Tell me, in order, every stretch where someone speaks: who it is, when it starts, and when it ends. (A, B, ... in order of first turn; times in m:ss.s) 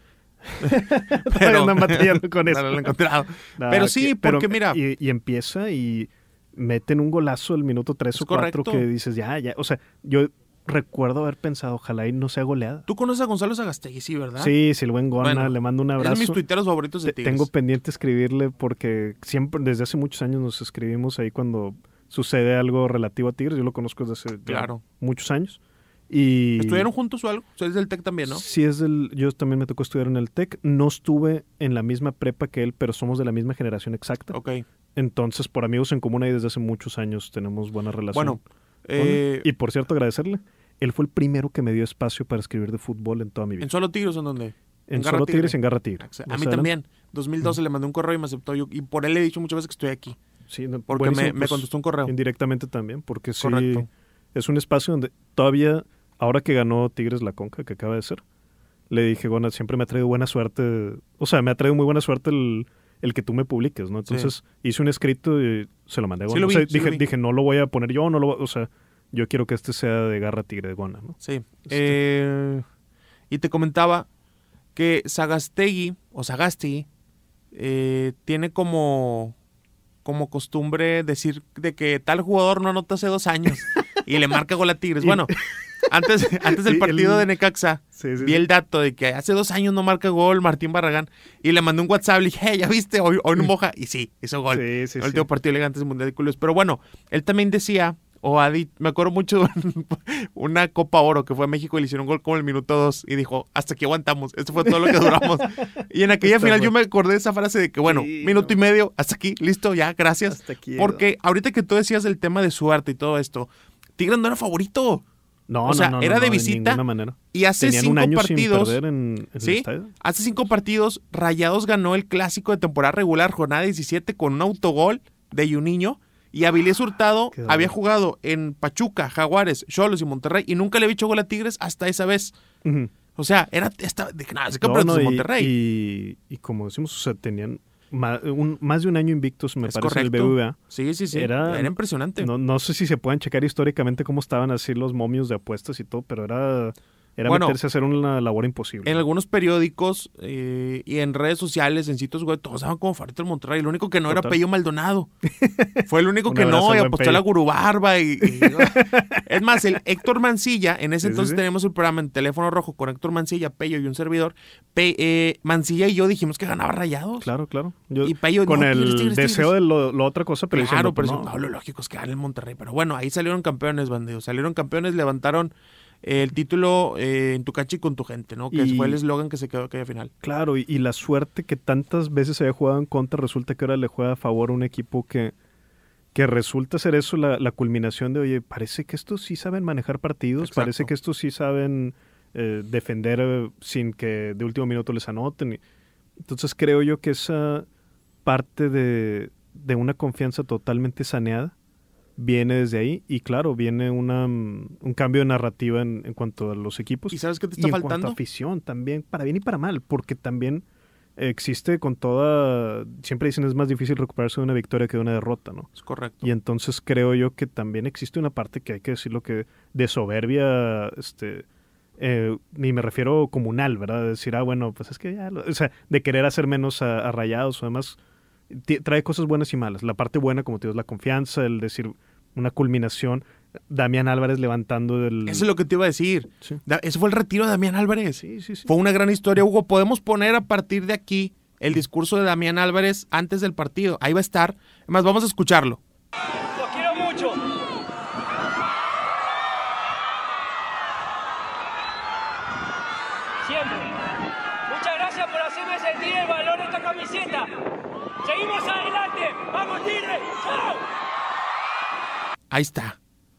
0:00.6-0:12.9 A
0:00.6-0:04.8 B
0:08.2-0:08.9 B
0:12.9-0:14.5 B
0:14.4-0:16.4 A
0:15.2-0:17.5 B
0:17.0-0:26.9 A
0:24.5-0:24.8 B
0:26.6-0:28.4 B
0:28.3-0:34.4 A
0:34.3-0:34.6 B
0:35.0-0:38.4 A
0:38.1-0:39.5 B
0:39.0-0:43.7 A
0:43.6-0:50.2 B
0:44.9-0:46.7 A
0:50.5-0:58.2 A
0:50.9-0:52.1 B
0:53.4-0:53.9 B
0:58.9-1:12.0 A
1:04.1-1:04.3 B
1:06.3-1:07.0 B
1:11.2-1:12.6 B
1:13.3-1:14.1 B
1:14.8-1:16.9 B
1:17.5-1:19.4 B
1:20.0-1:55.0 B
1:25.0-1:25.8 A
1:26.4-1:27.3 A
1:27.9-1:28.5 A
1:34.5-1:35.3 A
1:44.6-1:46.7 A
1:47.9-1:48.6 A
1:50.3-1:51.0 A
1:55.5-1:59.9 A
1:55.6-1:56.8 B
1:57.3-1:58.8 B
1:59.4-2:12.4 B
2:07.3-2:07.8 A
2:12.6-2:12.9 A
2:13.2-2:15.5 B
2:14.6-2:20.6 A
2:19.6-2:22.3 B
2:21.1-2:29.0 A
2:27.2-2:27.6 B
2:28.8-2:35.1 B
2:34.1-2:34.4 A
2:35.2-2:37.2 A
2:35.8-2:47.3 B
2:38.2-2:39.2 A
2:41.0-2:41.4 A
2:47.2-2:51.3 A
2:48.0-2:49.5 B
2:50.5-3:00.1 B
2:58.5-2:59.0 A
3:00.2-3:05.4 A
3:06.1-3:15.6 A
3:10.4-3:10.9 B
3:16.2-3:17.7 A
3:18.2-3:21.5 A
3:22.2-3:30.6 A
3:27.1-3:28.2 B
3:31.2-3:35.7 A
3:35.8-3:36.3 B
3:36.2-3:41.5 A
3:42.0-3:48.0 A
3:48.5-3:55.5 A
3:55.3-4:05.8 B
3:58.2-3:58.7 A
4:06.5-4:07.5 C
4:13.4-4:14.0 C
4:14.7-4:17.6 C
4:18.2-4:20.9 C
4:22.5-4:23.0 B